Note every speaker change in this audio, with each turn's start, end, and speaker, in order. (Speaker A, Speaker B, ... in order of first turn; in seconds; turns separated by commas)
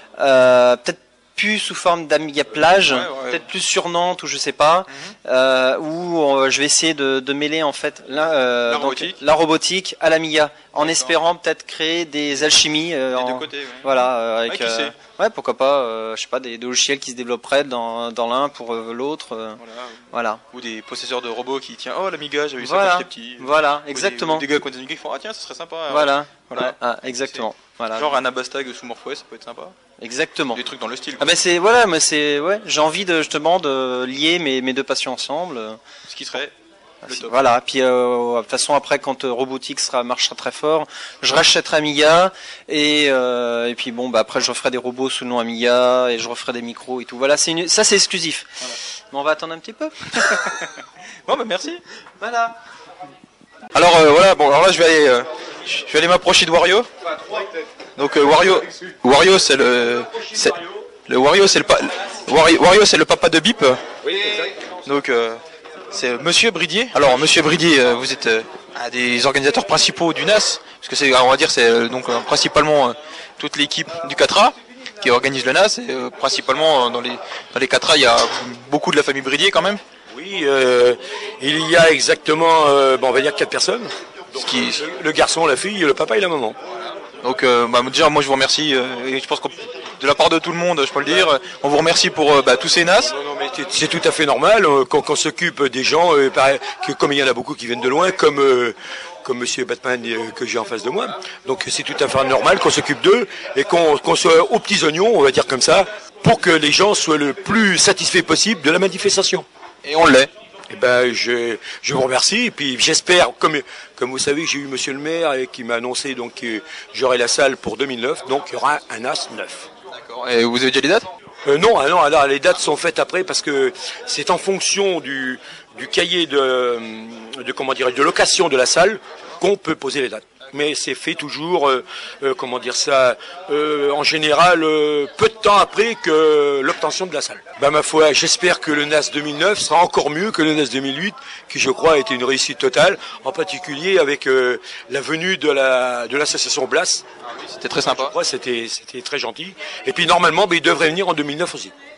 Speaker A: 0.2-19.6, Speaker B: 2.8-3.4, Speaker B: 8.6-9.2, Speaker B: 10.7-11.2, Speaker B: 13.1-14.9, Speaker B: 19.6-29.7, Speaker A: 20.1-20.4, Speaker A: 22.6-24.5, Speaker A: 25.9-28.1, Speaker A: 30.0-30.6, Speaker B: 30.5-31.4, Speaker A: 31.2-35.8, Speaker B: 36.1-36.5, Speaker A: 37.0-50.5, Speaker B: 37.0-37.4, Speaker B: 51.3-51.8, Speaker A: 52.2-52.5, Speaker B: 53.7-56.9, Speaker B: 58.0-63.8, Speaker B: 64.8-79.8, Speaker C: 80.1-86.6, Speaker B: 84.3-84.8, Speaker B: 86.8-93.1, Speaker C: 91.0-91.3, Speaker C: 93.0-109.5, Speaker B: 109.8-110.3, Speaker C: 110.7-119.7, Speaker B: 119.9-121.1, Speaker C: 121.4-147.0, Speaker B: 147.2-148.2, Speaker C: 147.8-151.7